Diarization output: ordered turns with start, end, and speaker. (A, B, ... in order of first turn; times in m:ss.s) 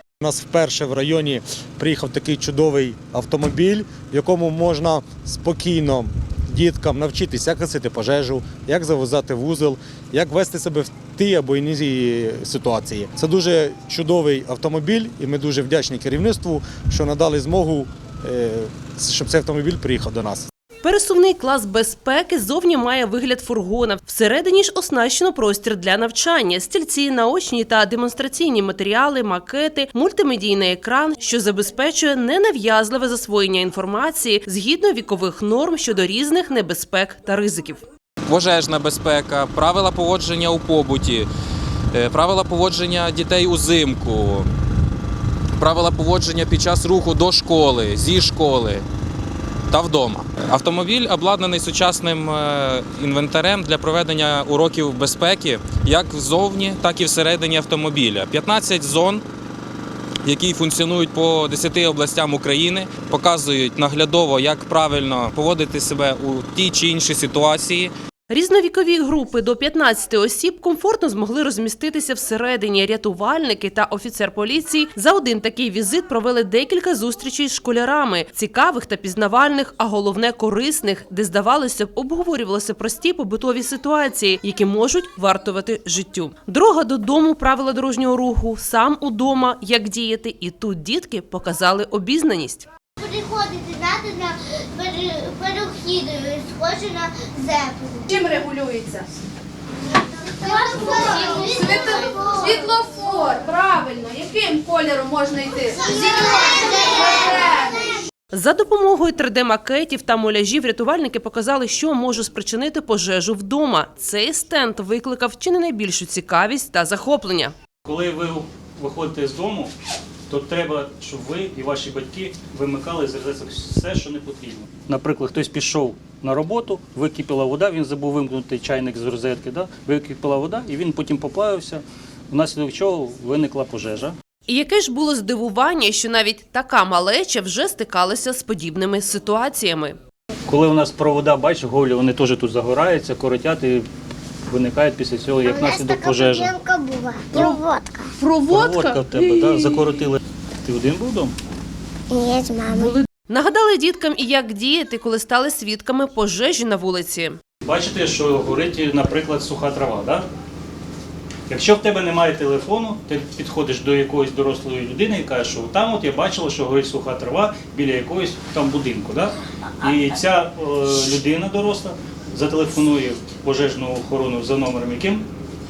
0:00.2-0:20.5 A
0:20.8-0:37.8 B
0:38.3-0:41.3 C
0:41.9-0:44.4 C
0:45.6-0:48.8 C
0:49.7-0:59.2 C
1:00.2-1:07.9 C
1:08.3-1:32.7 B
1:33.0-1:38.3 D
1:38.1-1:39.0 E
1:39.9-1:42.7 D
1:40.7-1:47.8 E
1:45.6-1:47.9 D
1:48.3-1:57.5 B
1:57.8-1:59.7 F
2:00.3-2:14.1 F
2:14.5-2:20.0 B
2:20.5-2:23.9 F
2:24.5-2:26.5 F
2:25.4-2:28.1 D
2:28.2-2:29.0 E
2:28.5-2:31.3 F
2:32.1-2:33.0 D
2:33.3-2:37.4 B
2:37.6-2:40.3 F
2:41.5-2:55.2 F